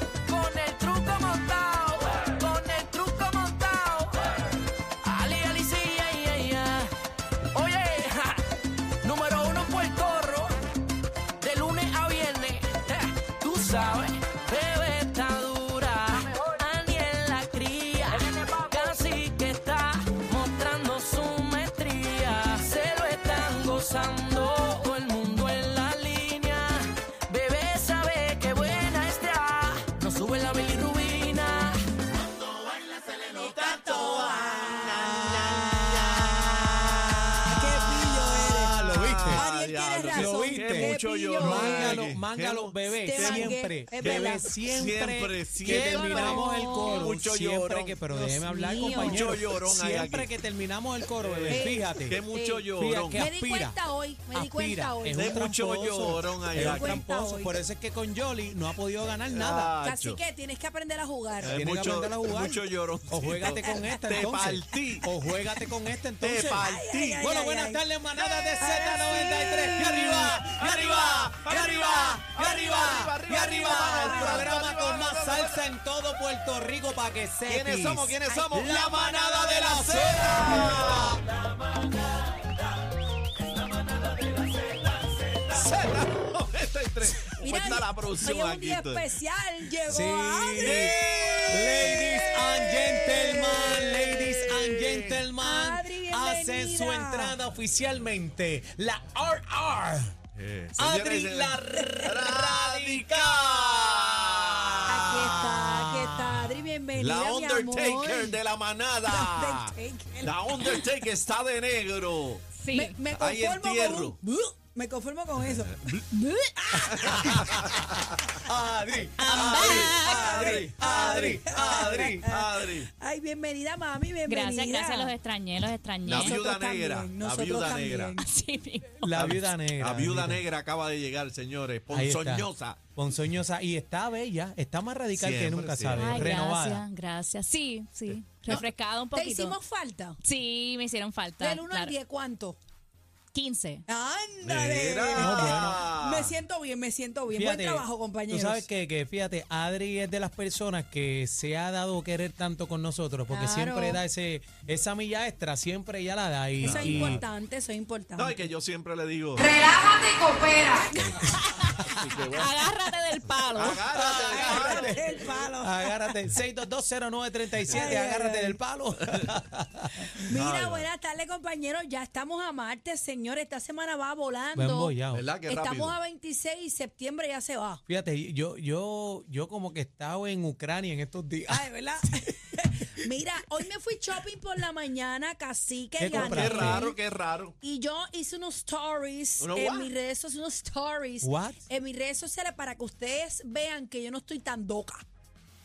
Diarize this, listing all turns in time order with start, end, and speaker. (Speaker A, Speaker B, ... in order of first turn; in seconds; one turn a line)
Speaker A: 0.2-4.2
Speaker A: 5.0-6.9
Speaker A: 7.5-8.5
Speaker A: 9.0-10.5
Speaker A: 11.4-31.9
Speaker B: 32.1-48.0
Speaker C: 33.4-36.5
Speaker C: 37.4-42.0
Speaker D: 38.5-39.4
Speaker D: 40.1-52.2
Speaker C: 43.0-44.5
Speaker C: 45.7-47.1
Speaker C: 48.1-49.6
Speaker B: 48.9-50.3
Speaker B: 51.2-53.3
Speaker C: 51.5-55.3
Speaker D: 52.8-53.8
Speaker D: 54.3-59.7
Speaker B: 55.1-57.0
Speaker C: 56.6-57.6
Speaker B: 59.3-60.2
Speaker C: 59.8-61.6
Speaker D: 61.4-66.7
Speaker B: 61.4-65.6
Speaker C: 63.6-63.9
Speaker B: 66.2-67.3
Speaker C: 66.6-67.8
Speaker D: 67.2-82.3
Speaker B: 68.1-75.6
Speaker C: 68.6-70.1
Speaker C: 73.5-74.5
Speaker B: 77.5-81.2
Speaker D: 83.5-85.6
Speaker B: 85.5-89.1
Speaker C: 87.4-93.8
Speaker D: 89.9-91.0
Speaker B: 90.6-92.3
Speaker D: 91.5-100.1
Speaker B: 93.0-95.2
Speaker C: 95.4-97.4
Speaker B: 100.3-105.5
Speaker D: 100.8-104.3
Speaker C: 104.9-108.4
Speaker B: 107.0-112.4
Speaker C: 109.1-110.8
Speaker E: 112.5-113.0
Speaker C: 112.7-117.5
Speaker B: 113.1-114.2
Speaker B: 115.5-116.0
Speaker D: 116.8-117.6
Speaker B: 117.0-117.6
Speaker D: 118.4-122.2
Speaker E: 119.2-120.4
Speaker C: 119.3-125.1
Speaker B: 119.4-122.9
Speaker E: 124.3-126.4
Speaker B: 126.0-128.2
Speaker C: 126.1-128.3
Speaker E: 128.2-129.2
Speaker D: 129.0-130.4
Speaker B: 129.2-132.8
Speaker D: 131.9-136.8
Speaker B: 135.1-136.3
Speaker E: 135.9-139.6
Speaker C: 139.1-140.2
Speaker E: 140.2-141.9
Speaker C: 141.4-142.6
Speaker E: 143.3-143.8
Speaker C: 143.9-148.7
Speaker B: 144.4-146.4
Speaker D: 145.1-145.8
Speaker D: 147.3-157.2
Speaker C: 153.3-154.0
Speaker C: 156.6-158.4
Speaker B: 156.6-157.1
Speaker B: 158.2-159.6
Speaker C: 159.4-161.2
Speaker E: 161.6-163.8
Speaker B: 161.9-162.5
Speaker B: 163.5-165.2
Speaker D: 163.9-165.0
Speaker C: 164.1-166.1
Speaker D: 165.6-170.1
Speaker C: 167.7-168.6
Speaker C: 170.1-177.8
Speaker B: 170.3-170.9
Speaker D: 174.5-175.2
Speaker B: 175.1-176.0
Speaker D: 177.9-181.7
Speaker C: 181.5-187.0
Speaker D: 186.0-186.8
Speaker B: 186.1-187.6
Speaker C: 187.6-195.0
Speaker B: 189.4-189.9
Speaker D: 191.2-191.6